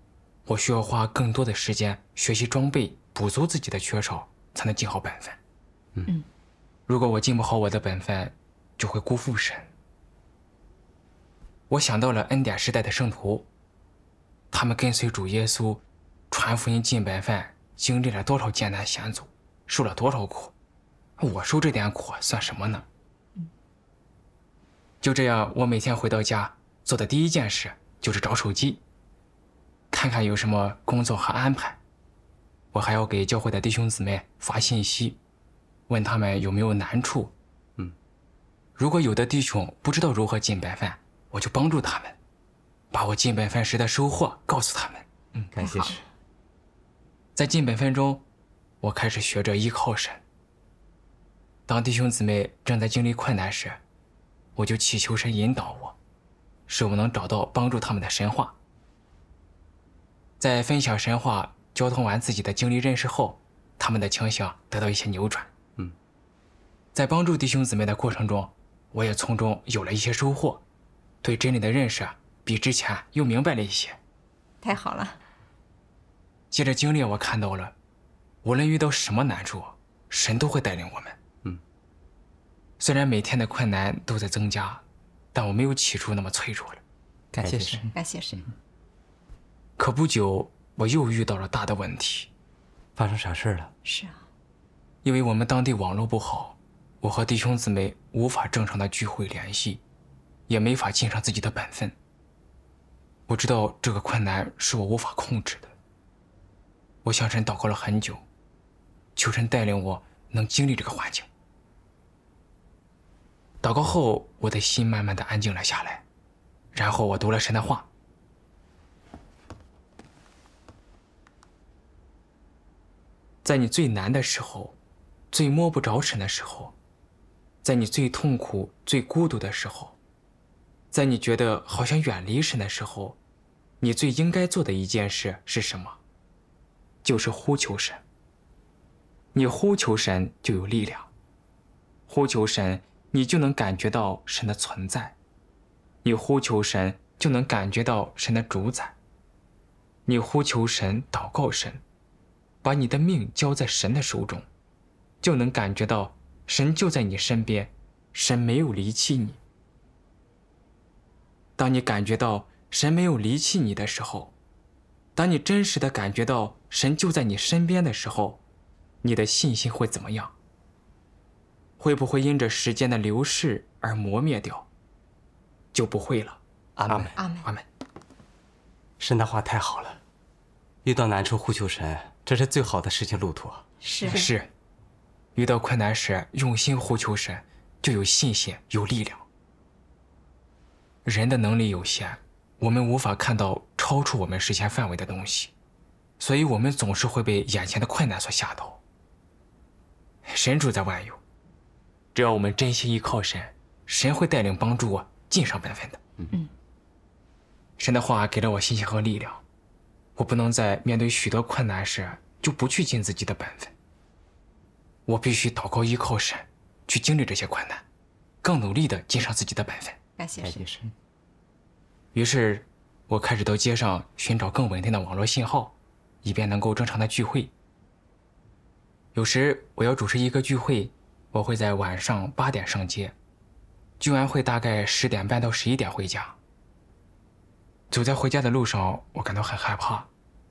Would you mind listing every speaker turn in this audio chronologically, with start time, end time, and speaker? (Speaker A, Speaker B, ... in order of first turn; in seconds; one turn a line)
Speaker A: 0.5-5.4
Speaker A: 6.9-9.7
Speaker A: 11.7-13.5
Speaker A: 14.5-20.5
Speaker A: 21.2-22.8
Speaker A: 25.0-28.8
Speaker A: 29.9-31.8
Speaker A: 32.7-35.2
Speaker A: 35.9-37.3
Speaker A: 38.8-42.1
Speaker A: 42.9-45.5
Speaker B: 45.5-46.0
Speaker C: 45.6-46.0
Speaker A: 47.4-48.2
Speaker A: 48.8-50.2
Speaker A: 51.7-53.8
Speaker A: 54.5-55.9
Speaker A: 56.7-58.5
Speaker A: 60.4-65.5
Speaker A: 66.9-70.6
Speaker A: 71.2-74.0
Speaker C: 74.6-75.2
Speaker A: 76.5-77.7
Speaker A: 78.4-81.2
Speaker A: 82.8-84.8
Speaker A: 85.3-86.8
Speaker A: 87.3-87.9
Speaker B: 87.4-87.8
Speaker C: 87.9-88.4
Speaker A: 89.8-92.3
Speaker B: 93.0-93.7
Speaker C: 93.8-94.2
Speaker A: 95.0-99.8
Speaker A: 100.5-101.9
Speaker A: 103.3-105.7
Speaker A: 107.0-108.2
Speaker A: 109.2-111.2
Speaker A: 113.6-116.0
Speaker A: 116.7-117.9
Speaker A: 123.4-124.8
Speaker A: 125.3-126.7
Speaker A: 127.6-129.9
Speaker A: 130.9-133.2
Speaker A: 133.8-136.0
Speaker A: 137.0-138.0
Speaker A: 139.3-141.1
Speaker A: 142.1-145.1
Speaker A: 146.0-148.9
Speaker A: 150.1-151.8
Speaker A: 152.6-154.4
Speaker A: 155.2-159.4
Speaker A: 161.6-164.3
Speaker A: 165.2-168.4
Speaker A: 169.0-170.3
Speaker A: 171.8-174.6
Speaker A: 175.7-177.6
Speaker B: 176.8-177.1
Speaker C: 177.2-177.5
Speaker B: 179.0-180.0
Speaker B: 180.8-183.6
Speaker C: 183.8-184.3
Speaker A: 184.1-184.5
Speaker A: 185.3-189.2
Speaker A: 191.0-195.5
Speaker A: 196.2-198.8
Speaker A: 200.2-201.2
Speaker A: 202.1-206.0
Speaker A: 207.8-209.4
Speaker A: 210.2-213.7
Speaker A: 215.1-217.8
Speaker A: 218.4-220.0
Speaker C: 220.2-220.7
Speaker B: 220.4-220.9
Speaker A: 222.1-227.5
Speaker A: 229.1-233.1
Speaker A: 234.0-236.3
Speaker A: 237.9-240.1